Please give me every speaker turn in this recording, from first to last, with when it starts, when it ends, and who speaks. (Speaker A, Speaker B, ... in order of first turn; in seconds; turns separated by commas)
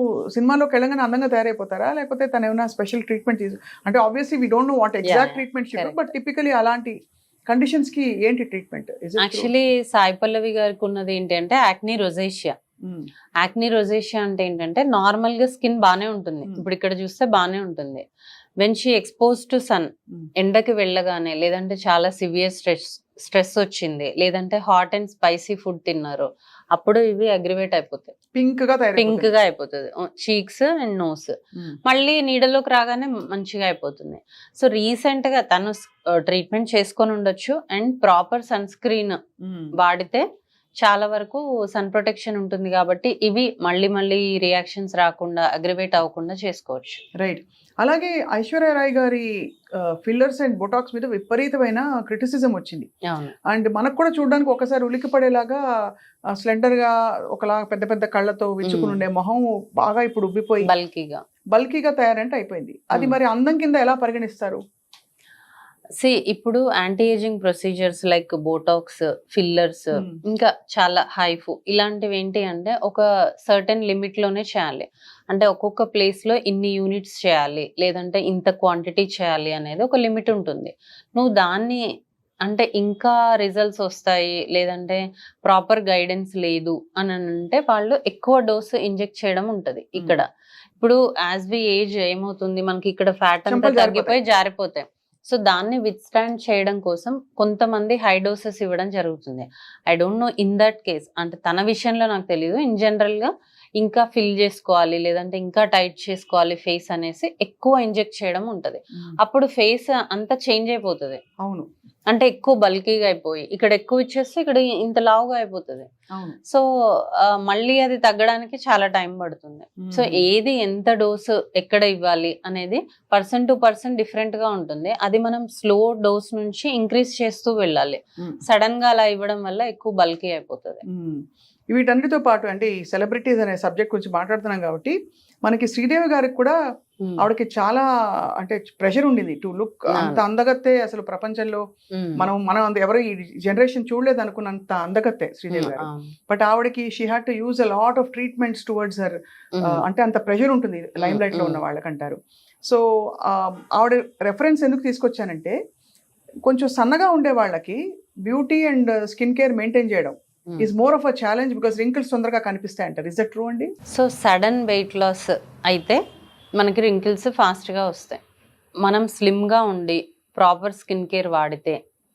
Speaker A: 0.3-7.0, Speaker B: 5.0-6.1, Speaker A: 7.5-9.5, Speaker B: 9.2-12.5, Speaker A: 12.8-13.1, Speaker B: 13.4-18.0, Speaker B: 18.6-28.1, Speaker A: 28.3-29.3, Speaker B: 29.0-39.2, Speaker A: 39.4-39.7, Speaker B: 39.8-40.2, Speaker B: 40.8-47.0, Speaker A: 47.2-52.9, Speaker B: 53.0-53.3, Speaker A: 53.5-55.6, Speaker A: 56.3-60.7, Speaker B: 58.6-59.0, Speaker B: 60.6-61.2, Speaker A: 61.5-64.6, Speaker B: 66.0-81.8, Speaker A: 69.9-70.2, Speaker B: 82.4-90.2, Speaker B: 90.8-111.2, Speaker A: 93.5-94.2, Speaker A: 111.4-111.7, Speaker B: 112.1-115.9, Speaker B: 116.5-130.8, Speaker A: 119.8-120.2, Speaker A: 130.8-136.6, Speaker B: 137.0-137.2, Speaker A: 137.2-137.8, Speaker A: 138.4-141.6, Speaker B: 139.9-140.2, Speaker B: 141.9-142.2, Speaker A: 142.2-155.6, Speaker B: 145.5-146.1, Speaker B: 149.5-149.8, Speaker B: 151.0-151.6, Speaker A: 156.4-163.7, Speaker B: 163.9-166.0, Speaker B: 166.6-168.2, Speaker B: 168.8-171.8